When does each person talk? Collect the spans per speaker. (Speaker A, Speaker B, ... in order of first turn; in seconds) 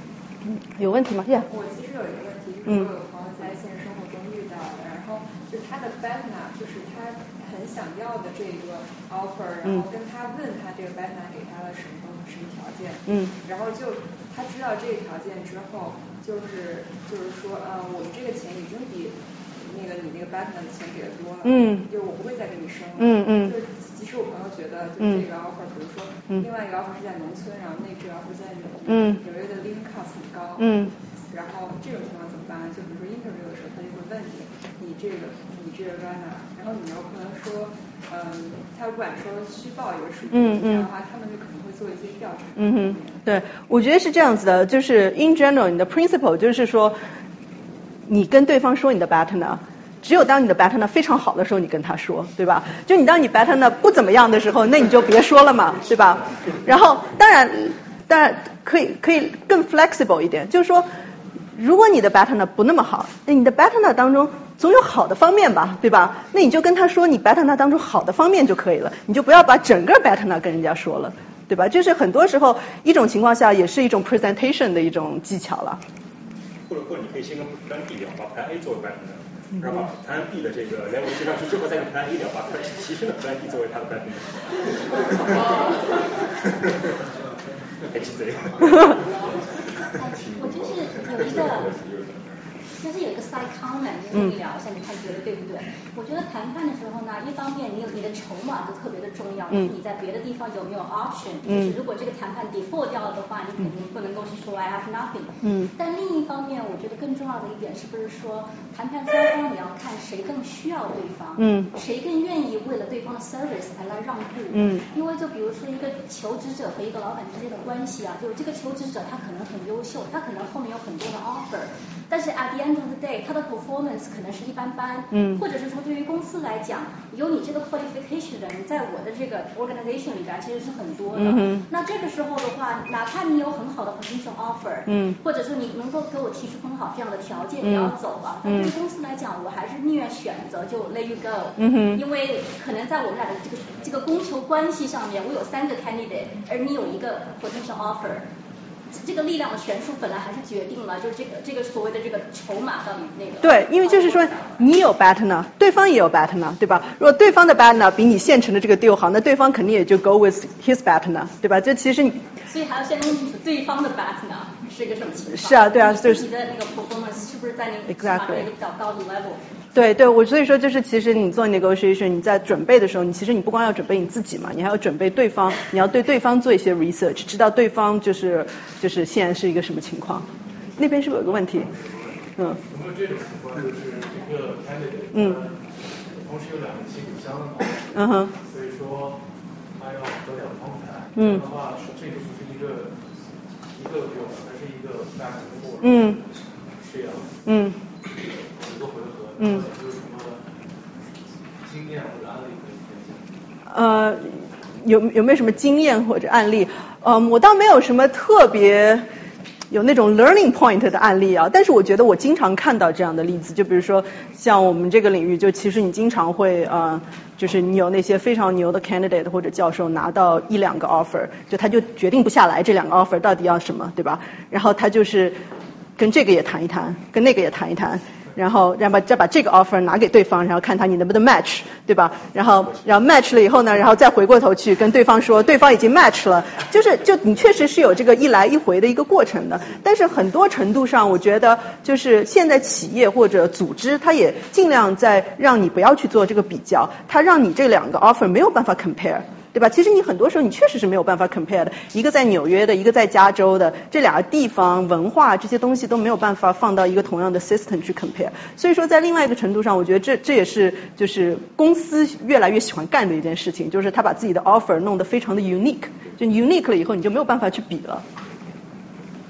Speaker A: 0.8-1.5, 21.4-21.9, 23.0-23.6, 25.0-25.2, 28.9-29.2, 30.6-30.9, 40.3-40.9, 42.6-47.0, 48.1-60.9, 61.5-75.8, 101.5-101.8, 105.4-105.7, 111.4-111.7, 114.5-114.8, 125.1-125.4, 131.2-131.7, 134.9-135.2, 137.6-137.9, 138.4-138.7, 141.6-142.0, 153.4-162.2, 165.3-166.2, 167.9-168.5, 169.8-180.3, 180.8-181.7, 185.1-185.4, 187.9-188.3, 191.2-191.4, 195.8-196.2, 197.5-197.8, 199.4-199.7, 203.7-204.3, 204.8-209.0, 209.7-225.4, 226.0-268.1
Speaker B: 1.4-43.2
Speaker C: 76.7-85.6, 86.3-86.9, 87.9-89.2, 90.0-92.4
Speaker D: 90.0-91.7, 92.8-148.3, 148.9-154.6, 162.5-169.4
Speaker E: 181.7-187.9, 188.4-189.2, 189.8-192.9, 193.7-197.3, 198.6-200.4, 201.6-203.2